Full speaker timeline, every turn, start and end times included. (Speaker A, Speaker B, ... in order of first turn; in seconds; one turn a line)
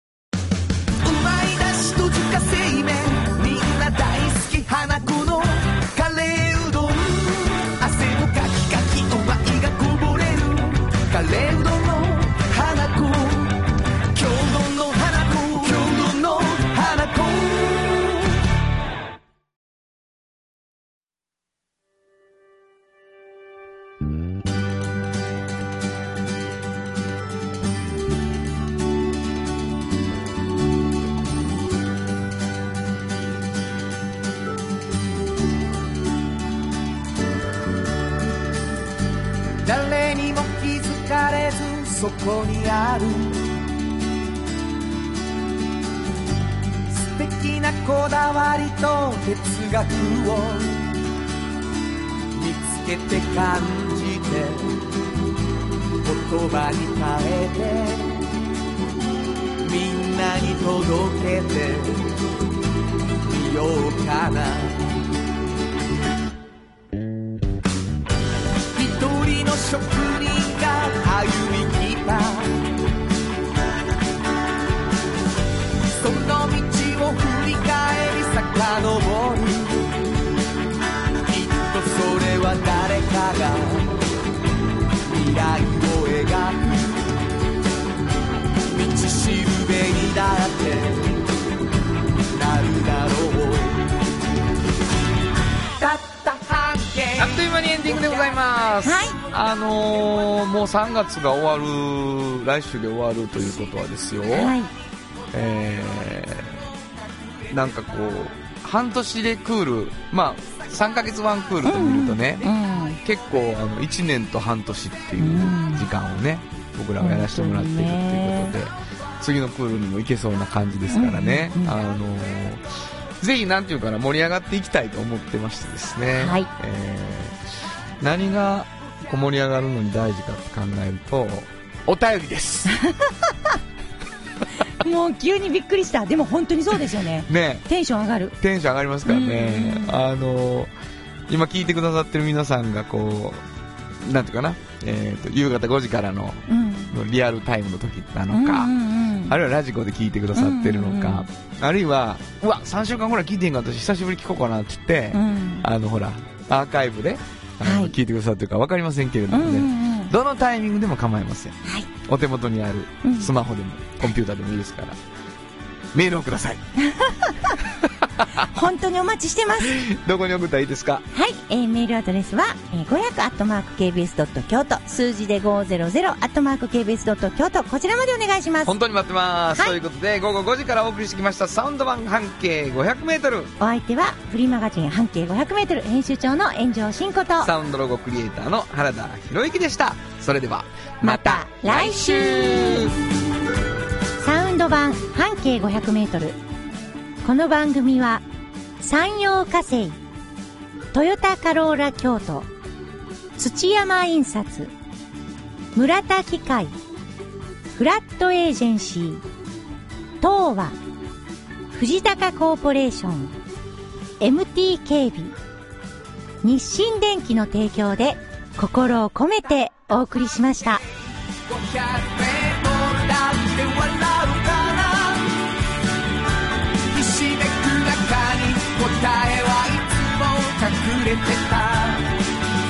Speaker A: 1.0-18.4
Speaker A: 39.6-43.4
Speaker A: 46.9-50.8
Speaker A: 52.3-54.8
Speaker A: 56.0-58.2
Speaker A: 59.6-62.2
Speaker A: 63.2-65.0
Speaker A: 68.7-72.6
Speaker A: 76.0-79.9
Speaker A: 81.2-84.1
Speaker A: 85.0-87.2
Speaker A: 88.7-91.3
Speaker A: 92.3-94.0
Speaker A: 95.8-98.1
Speaker B: 97.2-104.5
Speaker C: 98.8-99.2
Speaker C: 104.3-104.7
Speaker B: 105.3-106.6
Speaker B: 107.5-112.5
Speaker C: 111.6-113.0
Speaker B: 113.0-127.4
Speaker C: 115.2-115.9
Speaker C: 117.0-118.5
Speaker C: 120.9-121.8
Speaker C: 126.2-126.5
Speaker B: 128.0-132.7
Speaker C: 132.7-133.6
Speaker C: 134.8-138.4
Speaker B: 137.3-137.7
Speaker B: 138.4-140.7
Speaker C: 139.0-140.0
Speaker B: 141.3-143.4
Speaker B: 144.0-148.7
Speaker C: 146.5-146.9
Speaker C: 148.3-149.3
Speaker B: 149.3-165.0
Speaker C: 150.3-151.3
Speaker C: 155.1-155.7
Speaker C: 157.6-157.9
Speaker C: 159.3-160.1
Speaker C: 163.0-163.3
Speaker B: 165.9-166.6
Speaker C: 166.8-167.6
Speaker B: 167.8-168.5
Speaker C: 168.3-169.8
Speaker B: 169.6-171.0
Speaker C: 171.1-178.7
Speaker B: 178.6-183.5
Speaker C: 183.6-187.5
Speaker B: 187.4-192.9
Speaker C: 191.0-192.9
Speaker C: 194.2-196.4
Speaker C: 197.2-198.2
Speaker C: 198.8-200.0
Speaker C: 200.9-202.5
Speaker C: 203.4-204.7
Speaker C: 205.7-206.7
Speaker C: 207.7-209.2
Speaker C: 210.2-210.8
Speaker C: 211.7-213.3
Speaker C: 214.2-215.3
Speaker C: 216.4-220.8
Speaker A: 221.4-225.4
Speaker A: 226.9-232.2